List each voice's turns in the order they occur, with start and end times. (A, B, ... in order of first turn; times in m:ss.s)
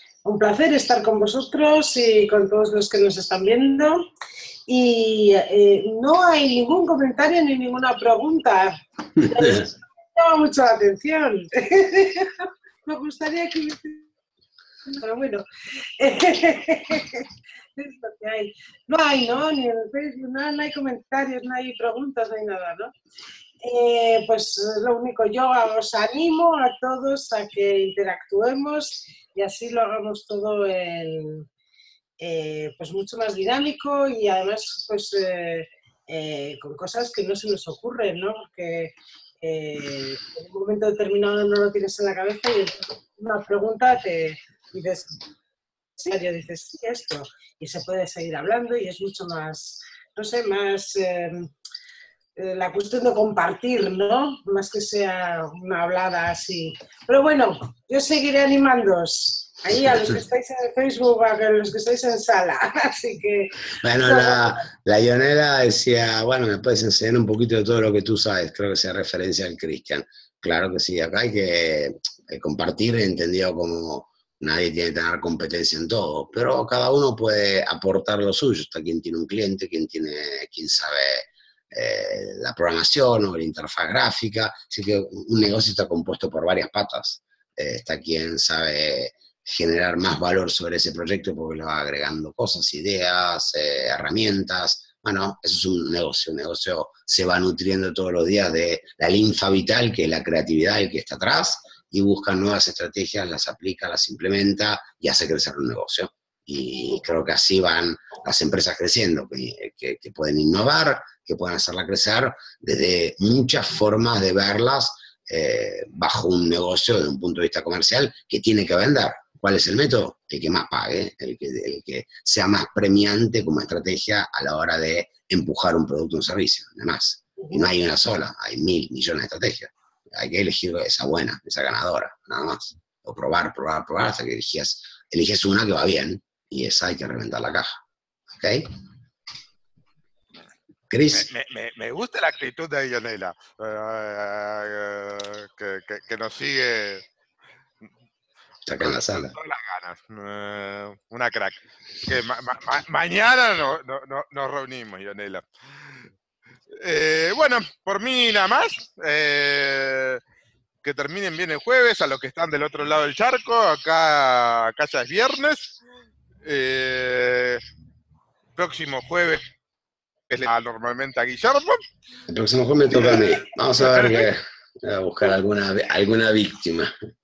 0:00.2-0:04.0 A
0:04.7-0:14.1 A
0:14.9-0:15.4 A
0:16.0-0:22.9 A
0:23.6-0:31.5 A
0:32.2-0:45.2 A
0:46.0-0:51.5 A
0:52.4-1:04.5 A
1:03.8-2:17.8 B
2:18.4-2:18.7 B
2:20.9-2:21.3 B
2:21.1-2:27.0 C
2:28.6-2:29.3 B
2:28.8-2:36.0 C
2:36.7-2:40.2 C
2:40.8-2:45.7 C
2:46.4-2:47.6 C
2:48.6-2:49.5 C
2:50.3-2:51.8 C
2:52.3-2:56.9 B
2:52.9-2:53.2 C
2:53.8-2:54.2 C